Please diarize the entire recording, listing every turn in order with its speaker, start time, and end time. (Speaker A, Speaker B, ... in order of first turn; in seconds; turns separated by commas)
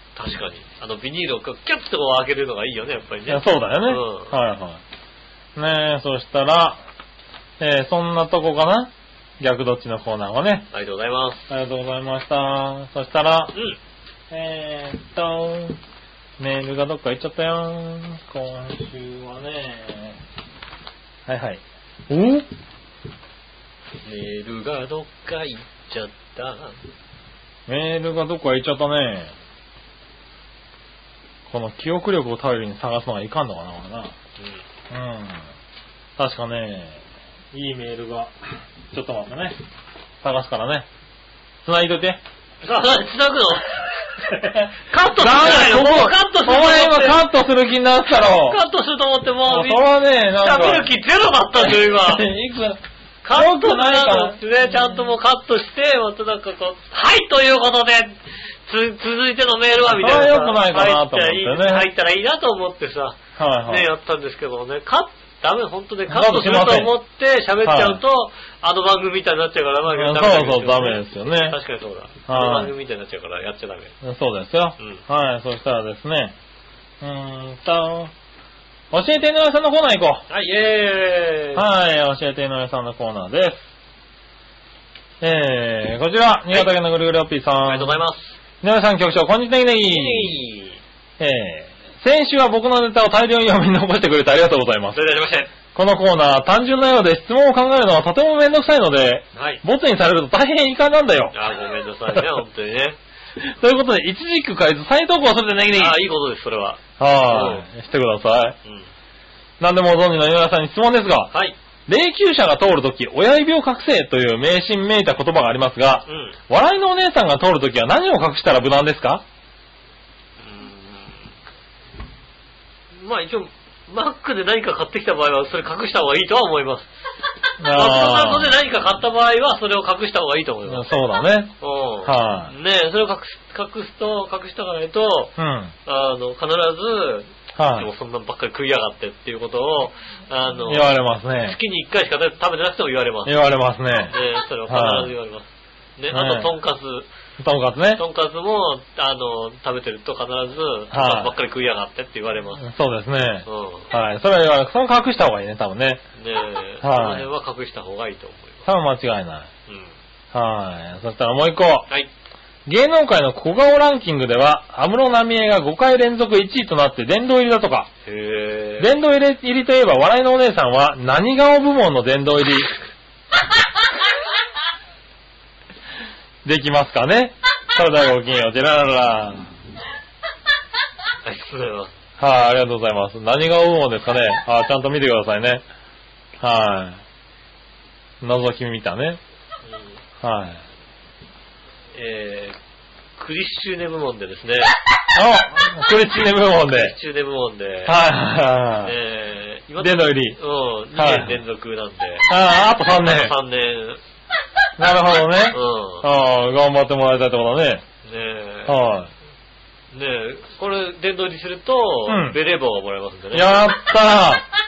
Speaker A: 0.2-4.3, Speaker B: 3.3-4.8, Speaker B: 5.6-6.8, Speaker B: 7.6-10.7, Speaker A: 10.7-11.5, Speaker B: 11.5-13.5, Speaker B: 14.3-15.8, Speaker B: 16.4-20.2, Speaker B: 21.3-22.5, Speaker A: 24.0-26.8, Speaker B: 27.7-29.3, Speaker B: 31.5-34.1, Speaker A: 34.4-34.6, Speaker B: 34.9-35.4, Speaker B: 36.2-37.0, Speaker B: 37.5-38.4, Speaker B: 38.9-39.6, Speaker B: 40.2-40.9, Speaker B: 41.6-42.2, Speaker A: 42.6-43.9, Speaker B: 44.3-48.6, Speaker A: 44.9-47.2, Speaker A: 48.2-49.9, Speaker B: 49.5-50.9, Speaker A: 50.4-52.3, Speaker B: 51.6-52.8, Speaker A: 53.2-74.0, Speaker B: 53.3-55.1, Speaker B: 59.9-61.9, Speaker B: 63.4-63.9, Speaker B: 66.1-66.9, Speaker B: 67.6-68.0, Speaker B: 69.9-71.6, Speaker B: 72.3-72.7, Speaker B: 74.0-76.3, Speaker B: 77.0-78.1, Speaker B: 78.9-80.2, Speaker A: 80.3-81.7, Speaker B: 81.6-83.7, Speaker B: 85.2-88.0, Speaker A: 87.7-88.4, Speaker B: 88.6-90.4, Speaker A: 89.9-90.8, Speaker B: 91.2-95.0, Speaker A: 94.9-95.5, Speaker B: 95.7-101.4, Speaker A: 99.3-99.6, Speaker A: 101.3-103.0, Speaker B: 103.4-106.0, Speaker A: 105.7-107.7, Speaker B: 107.0-108.6, Speaker B: 109.6-111.3, Speaker A: 111.3-111.6, Speaker B: 111.9-119.2, Speaker A: 116.1-116.4, Speaker A: 120.4-121.3, Speaker A: 122.9-126.9, Speaker B: 127.6-128.6, Speaker A: 127.7-130.9, Speaker B: 130.7-131.5, Speaker A: 131.6-135.3, Speaker B: 132.1-132.5, Speaker B: 135.4-135.7, Speaker A: 135.9-143.4, Speaker B: 137.6-137.9, Speaker B: 140.7-141.6, Speaker B: 143.3-144.2, Speaker A: 144.1-147.1, Speaker B: 144.7-145.1, Speaker B: 146.1-146.5, Speaker B: 147.4-148.0, Speaker A: 148.0-152.6, Speaker B: 150.9-151.3, Speaker B: 152.6-156.0, Speaker A: 153.4-153.9, Speaker A: 156.2-158.7, Speaker B: 156.8-157.3, Speaker B: 158.7-159.5, Speaker A: 159.7-159.9, Speaker B: 160.3-161.9, Speaker B: 162.7-167.9, Speaker A: 168.1-168.9, Speaker B: 168.8-172.7, Speaker B: 176.4-179.5, Speaker A: 181.2-181.9, Speaker B: 182.2-185.6, Speaker B: 186.4-187.0, Speaker B: 188.2-189.2, Speaker A: 189.7-190.0, Speaker B: 190.2-190.6, Speaker A: 191.9-192.6, Speaker A: 193.2-194.8, Speaker B: 195.1-196.9, Speaker A: 196.7-198.0, Speaker B: 197.9-198.9, Speaker A: 198.8-202.3, Speaker B: 199.8-200.4, Speaker B: 201.0-201.4, Speaker B: 202.3-203.4, Speaker A: 203.0-204.0, Speaker B: 204.8-207.8, Speaker A: 205.5-206.1, Speaker A: 208.1-208.8, Speaker B: 208.7-209.1, Speaker A: 209.9-213.7, Speaker B: 212.1-212.4, Speaker B: 213.3-214.4